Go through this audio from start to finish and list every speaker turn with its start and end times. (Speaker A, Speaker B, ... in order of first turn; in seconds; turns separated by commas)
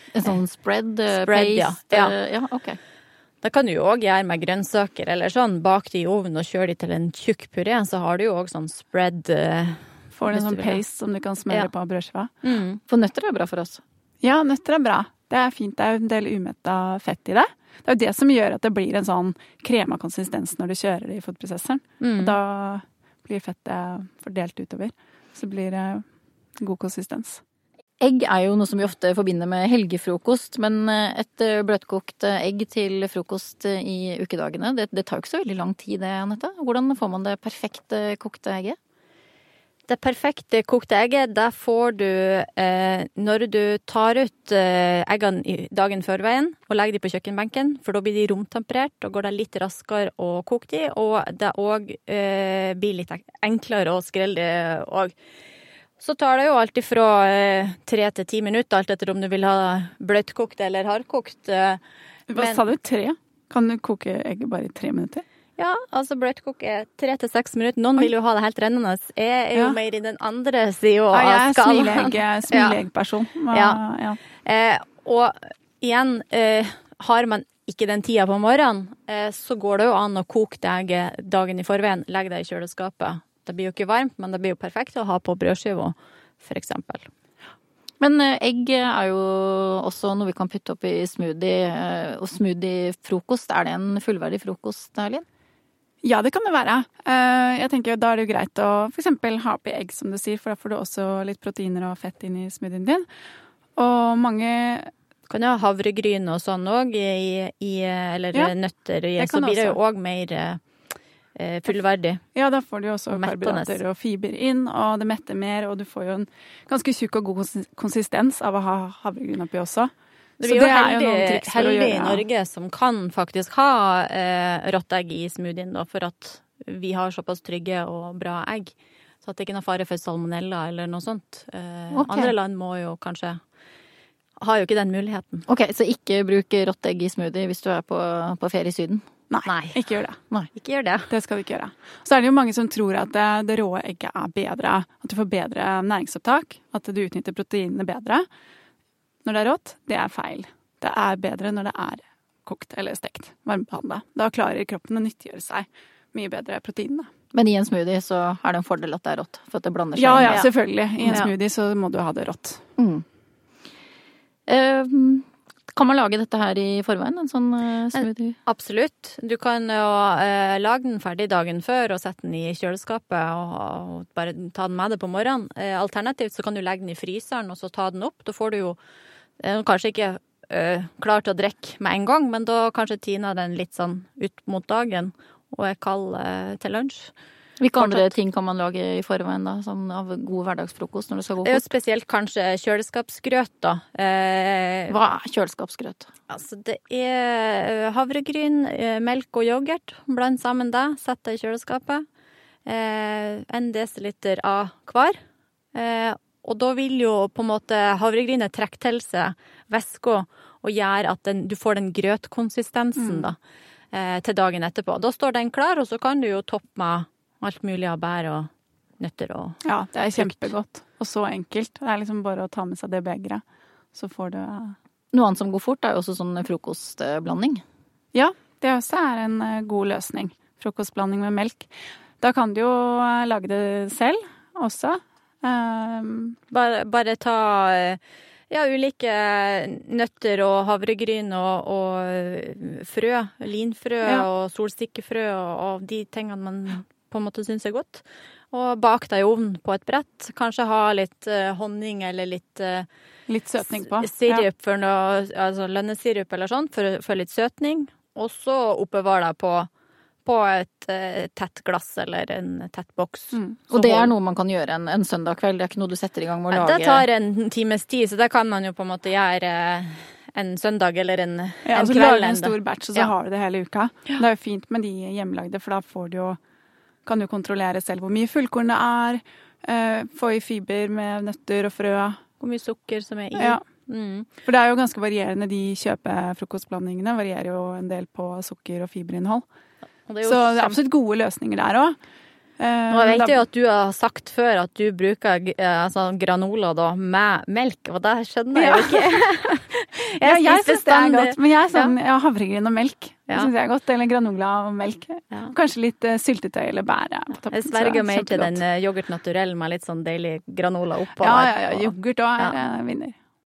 Speaker A: 0.1-2.8, Speaker B: 1.1-2.1, Speaker B: 3.4-10.8, Speaker C: 10.2-12.3, Speaker B: 12.4-12.8, Speaker A: 12.9-13.8, Speaker C: 14.2-26.1, Speaker B: 22.0-22.4, Speaker C: 26.6-27.4, Speaker A: 28.0-38.8, Speaker B: 39.9-55.1, Speaker B: 56.0-61.8, Speaker C: 62.3-65.2, Speaker B: 62.4-62.6, Speaker B: 65.6-72.8, Speaker C: 71.1-74.2, Speaker B: 73.5-73.8, Speaker B: 74.4-87.1, Speaker A: 88.0-95.2, Speaker C: 96.0-103.1, Speaker C: 103.8-104.9, Speaker B: 105.3-110.6, Speaker C: 109.2-109.8, Speaker B: 111.4-112.2, Speaker C: 112.3-122.2, Speaker B: 113.1-113.8, Speaker B: 120.4-133.4, Speaker A: 131.9-132.3, Speaker B: 134.4-135.5, Speaker A: 135.5-139.1, Speaker C: 139.3-140.2, Speaker B: 139.5-139.8, Speaker B: 140.5-141.1, Speaker C: 141.1-148.3, Speaker C: 149.2-157.1, Speaker A: 157.3-160.5, Speaker C: 160.0-162.6, Speaker B: 161.1-161.3, Speaker A: 162.8-163.1, Speaker A: 164.5-168.4, Speaker B: 167.9-178.8, Speaker B: 179.4-187.1, Speaker A: 187.6-191.7, Speaker B: 187.8-188.1, Speaker B: 191.4-195.0, Speaker A: 194.9-196.1, Speaker B: 196.3-202.1, Speaker B: 202.7-205.2, Speaker B: 205.7-213.4, Speaker C: 213.0-213.3, Speaker B: 213.9-219.6, Speaker C: 219.7-223.4, Speaker B: 220.2-220.4, Speaker C: 223.9-224.8, Speaker A: 225.1-227.6, Speaker C: 228.1-236.4, Speaker B: 236.5-252.9, Speaker C: 253.3-254.5, Speaker B: 253.6-259.7, Speaker B: 260.2-264.1, Speaker C: 263.3-263.6, Speaker A: 263.7-267.1, Speaker B: 266.5-273.1, Speaker C: 271.6-276.4, Speaker C: 277.1-282.2, Speaker B: 282.4-284.3, Speaker C: 283.4-283.6, Speaker C: 284.4-289.4, Speaker B: 290.1-290.8, Speaker C: 290.2-292.0, Speaker C: 292.6-293.4, Speaker B: 292.9-301.9, Speaker C: 298.6-299.2, Speaker C: 300.2-308.6, Speaker B: 307.5-312.6, Speaker C: 311.2-313.2